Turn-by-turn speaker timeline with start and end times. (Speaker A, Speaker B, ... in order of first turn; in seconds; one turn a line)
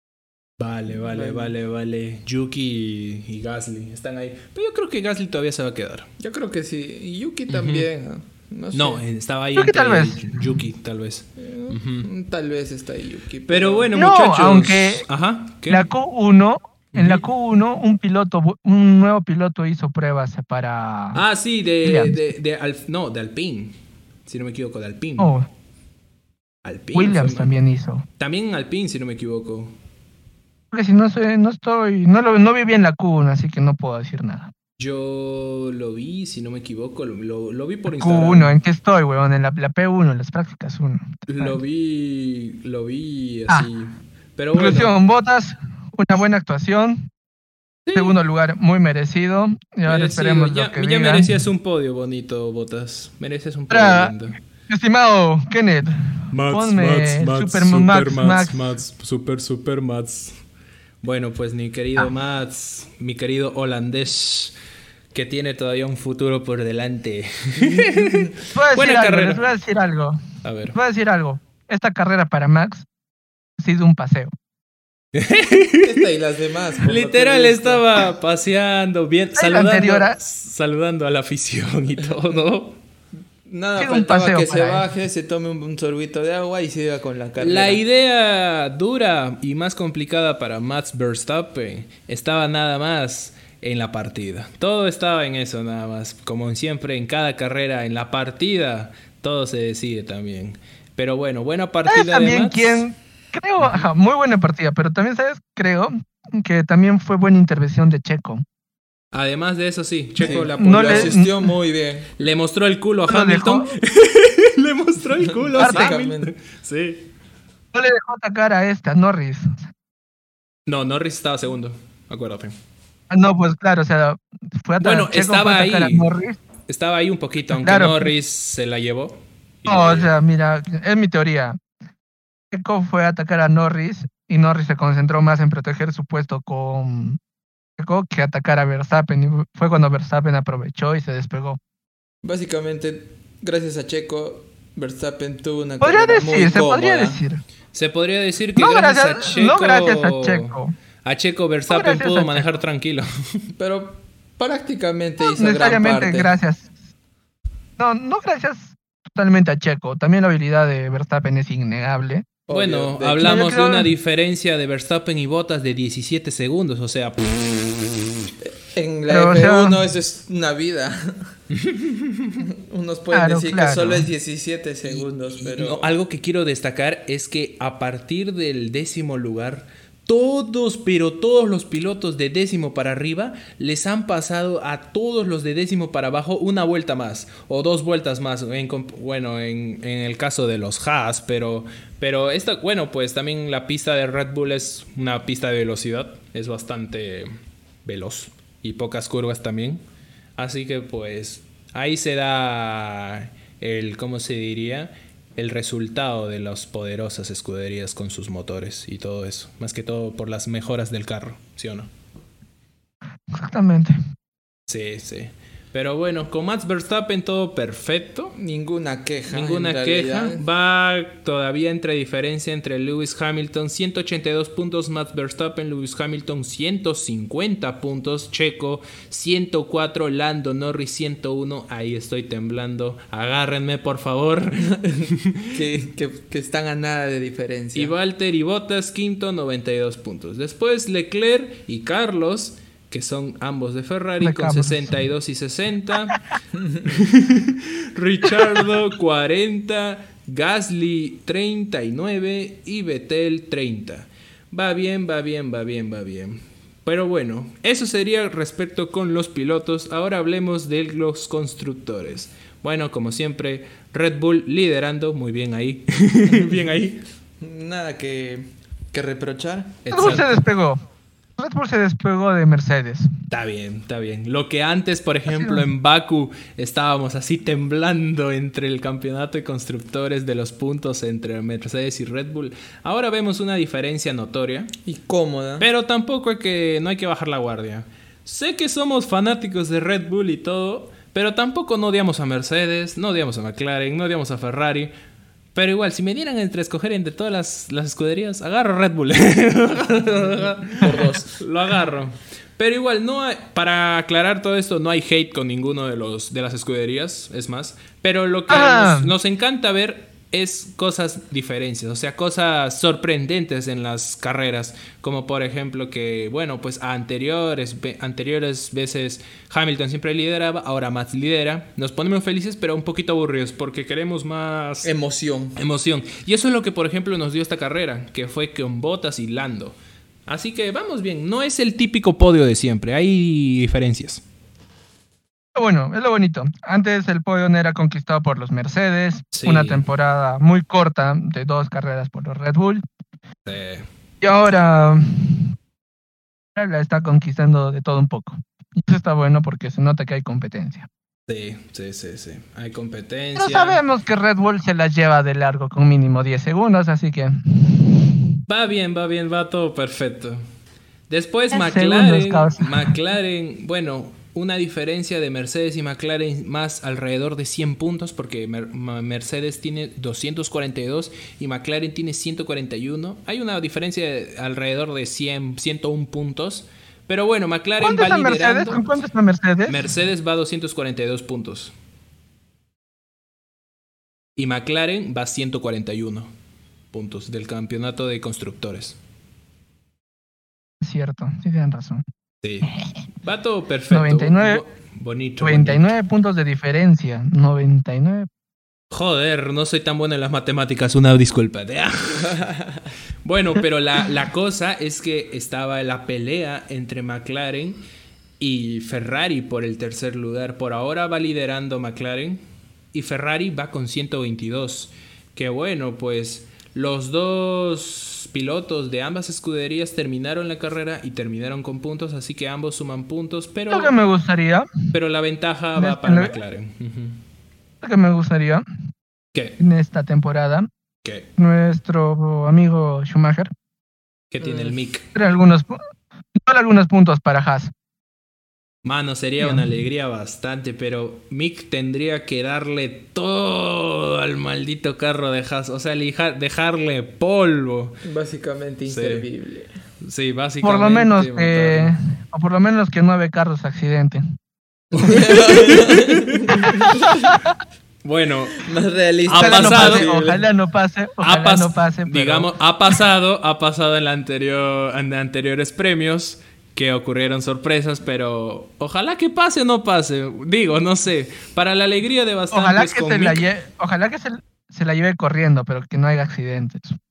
Speaker A: 0.6-6.1
Speaker B: 1.0-1.6
Speaker B: 6.2-9.0
Speaker A: 7.5-7.9
Speaker A: 8.7-12.1
Speaker C: 9.6-10.4
Speaker B: 11.4-13.9
Speaker A: 13.5-15.9
Speaker C: 13.9-15.1
Speaker C: 15.7-21.2
Speaker A: 16.9-17.2
Speaker A: 21.1-25.3
Speaker C: 21.8-22.2
Speaker C: 25.2-25.5
Speaker A: 26.6-27.6
Speaker C: 26.9-28.1
Speaker A: 28.2-29.8
Speaker C: 30.7-34.5
Speaker A: 34.8-38.6
Speaker C: 37.9-41.6
Speaker A: 41.3-45.0
Speaker C: 44.5-47.1
Speaker A: 47.9-48.2
Speaker C: 48.0-51.3
Speaker A: 49.9-54.4
Speaker C: 53.7-54.1
Speaker C: 54.7-55.9
Speaker A: 56.3-60.4
Speaker C: 56.5-58.7
Speaker A: 61.0-64.5
Speaker A: 65.1-69.4
Speaker B: 67.6-68.3
Speaker C: 68.5-70.2
Speaker A: 70.4-70.8
Speaker C: 70.7-72.9
Speaker C: 73.6-74.3
Speaker A: 75.1-76.0
Speaker B: 75.8-77.9
Speaker A: 76.8-82.8
Speaker C: 79.4-80.2
Speaker B: 83.5-87.8
Speaker C: 83.8-84.8
Speaker A: 87.4-102.8
Speaker C: 101.9-108.4
Speaker A: 109.1-111.2
Speaker B: 110.2-112.1
Speaker C: 110.6-111.4
Speaker A: 112.2-117.1
Speaker C: 113.1-113.7
Speaker B: 115.3-116.3
Speaker C: 115.6-115.9
Speaker C: 117.7-119.6
Speaker A: 120.7-122.5
Speaker C: 123.1-126.4
Speaker A: 124.8-126.1
Speaker A: 126.7-130.1
Speaker C: 127.5-128.1
Speaker C: 129.7-131.6
Speaker C: 132.5-137.2
Speaker C: 137.8-141.6
Speaker B: 142.2-147.2
Speaker C: 145.8-147.4
Speaker A: 147.7-153.5
Speaker C: 148.6-150.7
Speaker C: 151.7-152.5
Speaker B: 153.6-156.3
Speaker C: 155.2-156.7
Speaker C: 157.8-162.3
Speaker B: 162.5-163.5
Speaker A: 162.5-168.0
Speaker C: 163.2-163.9
Speaker B: 168.4-171.3
Speaker C: 169.1-169.8
Speaker A: 171.5-172.4
Speaker B: 172.4-175.9
Speaker C: 173.1-174.1
Speaker A: 175.4-197.3
Speaker A: 197.8-199.8
Speaker A: 200.4-211.9
Speaker C: 213.3-214.0
Speaker A: 214.7-218.4
Speaker B: 218.3-220.4
Speaker A: 219.3-235.6
Speaker B: 235.5-237.9
Speaker A: 237.8-246.2
Speaker C: 244.2-244.9
Speaker B: 246.5-247.0
Speaker A: 246.9-267.0
Speaker B: 267.4-269.8
Speaker A: 269.8-270.4
Speaker C: 269.9-270.8
Speaker C: 271.4-273.1
Speaker A: 273.3-284.7
Speaker C: 275.3-275.6
Speaker B: 284.9-285.7
Speaker A: 285.6-294.9
Speaker A: 295.6-324.9
Speaker B: 300.8-301.3
Speaker C: 308.5-309.1
Speaker B: 324.8-325.6
Speaker A: 325.6-329.8
Speaker A: 330.3-334.2
Speaker C: 335.6-342.8
Speaker A: 339.3-339.9
Speaker A: 343.5-343.9
Speaker C: 344.2-345.5
Speaker C: 346.6-350.9
Speaker A: 351.3-353.8
Speaker C: 353.4-358.3
Speaker A: 358.5-360.4
Speaker A: 361.1-378.9
Speaker C: 361.5-362.9
Speaker C: 377.8-379.9
Speaker A: 379.7-381.7
Speaker A: 384.4-386.3
Speaker A: 386.9-389.0
Speaker C: 390.8-392.0
Speaker A: 392.4-392.7
Speaker A: 393.2-395.9
Speaker C: 393.9-394.6
Speaker C: 395.4-398.3
Speaker A: 398.9-402.5
Speaker B: 402.2-402.9
Speaker A: 403.2-407.8
Speaker A: 408.4-412.4
Speaker A: 412.9-423.9
Speaker C: 423.7-424.7
Speaker A: 424.9-427.2
Speaker C: 425.8-426.4
Speaker C: 427.8-428.6
Speaker C: 429.6-430.7
Speaker C: 431.4-433.5
Speaker A: 434.3-435.1
Speaker C: 434.4-435.8
Speaker C: 436.4-437.7
Speaker A: 438.8-448.0
Speaker C: 439.4-439.7
Speaker B: 448.0-449.7
Speaker A: 448.9-449.3
Speaker A: 450.0-451.9
Speaker C: 450.6-454.2
Speaker A: 454.9-456.5
Speaker B: 454.9-457.2
Speaker C: 456.6-457.5
Speaker A: 458.0-458.7
Speaker B: 458.6-460.5
Speaker A: 459.2-460.1
Speaker C: 459.4-462.5
Speaker A: 461.2-473.4
Speaker C: 472.5-477.0